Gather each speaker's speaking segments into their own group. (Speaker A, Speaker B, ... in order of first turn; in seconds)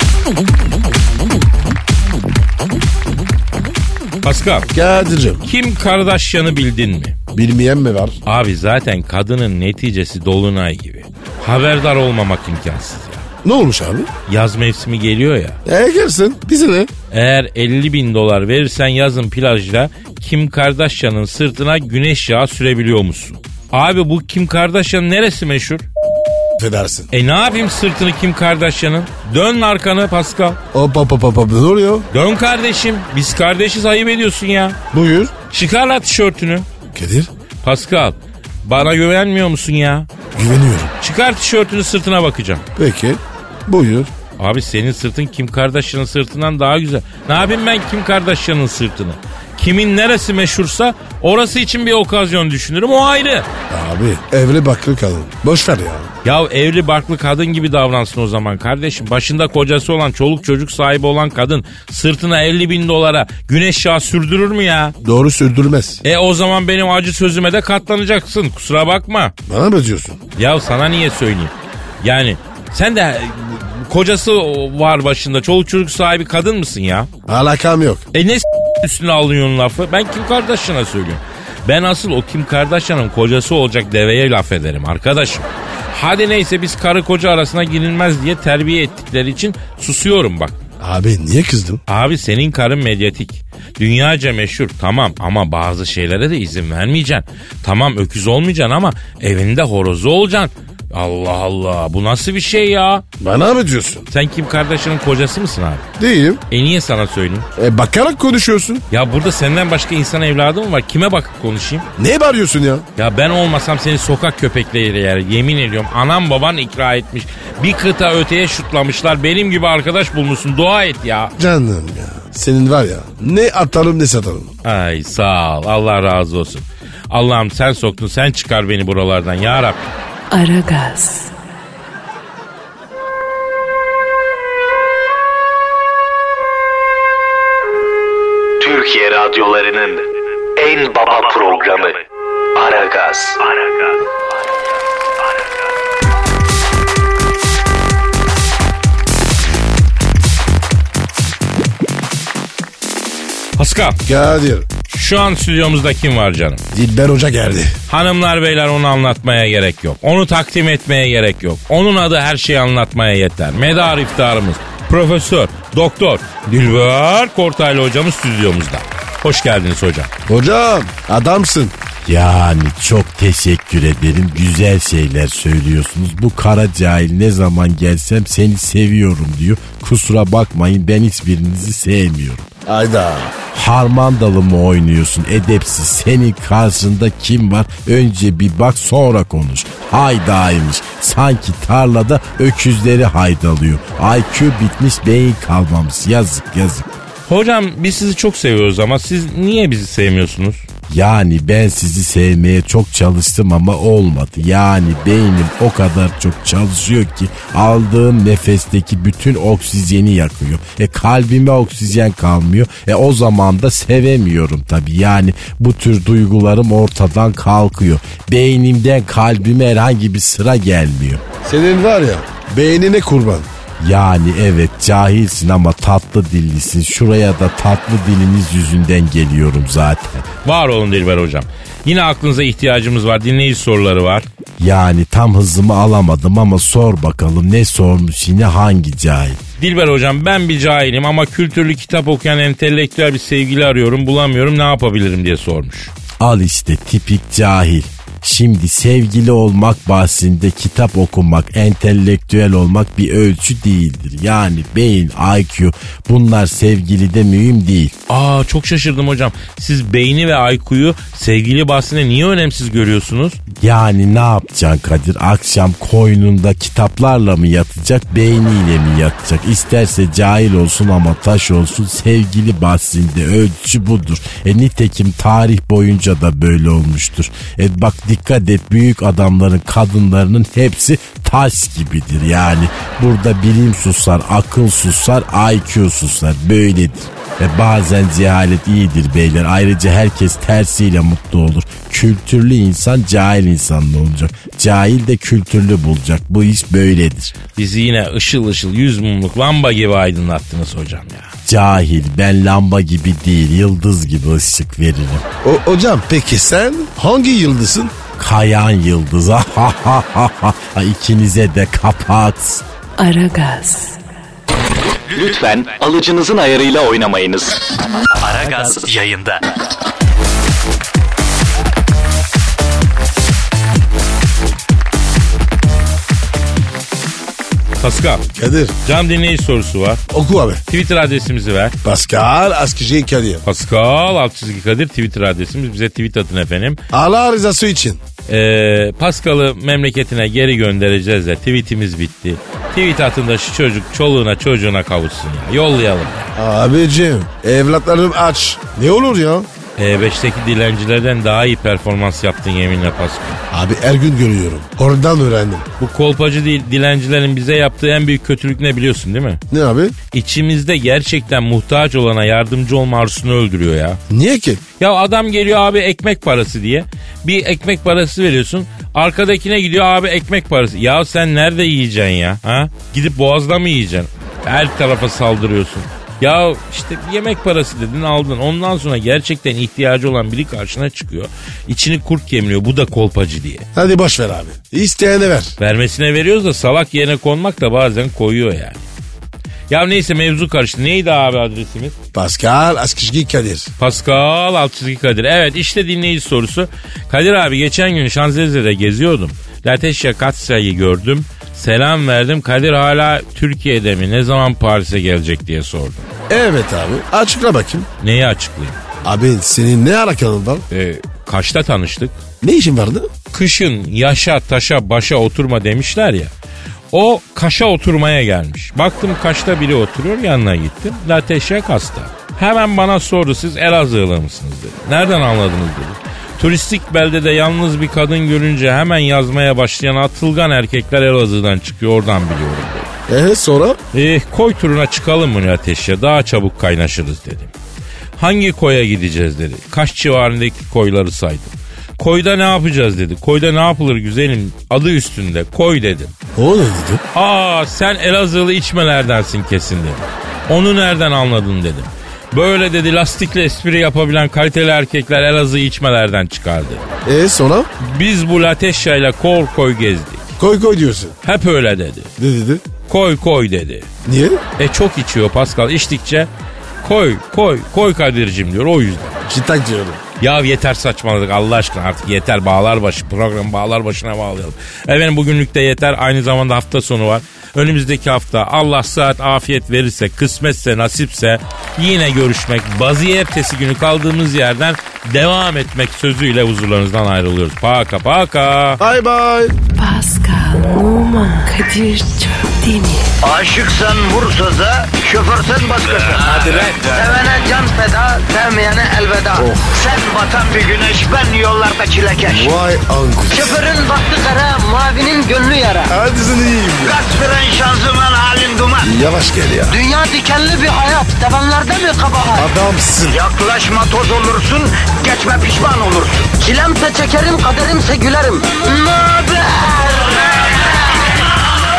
Speaker A: 4.2-4.7, 5.4-7.2, 8.2-13.2, 14.3-15.6, 17.1-25.9, 27.1-30.6, 32.1-34.8, 35.5-36.7, 37.6-40.1, 41.0-42.7, 44.4-53.5, 56.2-64.9, 66.0-69.3, 70.3-77.1, 78.1-90.6, 91.9-103.0, 104.1-105.8, 106.5-107.5, 108.9-111.9, 113.0-121.3, 124.6-129.9, 153.6-154.0, 154.9-156.6, 157.9-170.1, 197.2-200.6, 230.4-234.3, 239.6-245.9, 258.1-263.4, 297.5-301.3, 327.8-328.2, 328.8-330.0, 330.7-331.8, 333.4-336.8, 338.2-346.3, 349.8-353.4, 355.8-359.4, 360.1-364.0, 364.8-383.7, 385.6-388.8, 389.7-391.9, 393.8-406.1, 408.0-408.8, 410.7-412.2, 413.3-416.3, 416.9-432.9, 433.9-437.5, 438.2-446.1, 447.1-456.9, 457.8-460.3, 461.2-462.1, 462.9-463.9, 464.6-466.3, 466.8-469.2, 470.2-488.8
Speaker B: 4.7-5.5, 7.3-8.2, 13.4-14.1, 15.7-16.9, 26.6-27.1, 30.7-32.0, 34.9-35.3, 36.9-37.3, 40.3-40.9, 42.8-44.1, 53.7-56.1, 65.0-66.0, 69.5-70.2, 77.3-78.0, 90.8-91.8, 103.2-104.0, 106.0-106.4, 107.6-108.8, 112.0-112.8, 121.4-124.5, 154.1-154.7, 156.7-157.7, 170.3-171.7, 182.7-183.3, 221.4-223.5, 305.4-308.0, 328.3-328.8, 330.1-330.6, 331.8-333.4, 336.9-338.0, 346.4-349.5, 353.5-355.6, 359.5-359.9, 364.1-364.6, 383.7-385.5, 392.1-393.7, 406.3-407.9, 409.0-410.6, 412.4-413.1, 433.1-433.8, 446.4-447.0, 457.0-457.7, 460.4-461.2, 462.2-462.6, 464.0-464.4, 469.2-470.0, 488.8-489.5, 499.4-499.7, 502.2-503.6, 505.9-507.0, 508.8-509.8, 512.3-513.2
Speaker C: 130.3-131.3, 313.0-314.0, 489.8-493.1
Speaker D: 138.6-142.0, 142.5-143.5, 315.1-317.6, 318.2-319.4
Speaker E: 172.0-182.5, 183.5-196.9, 200.9-221.2, 223.8-230.3, 234.6-239.4, 246.2-257.9, 263.5-297.3, 301.4-305.2, 308.1-312.6
Speaker F: 493.2-502.6, 503.3-506.0, 506.8-508.9, 509.7-512.5, 513.1-521.0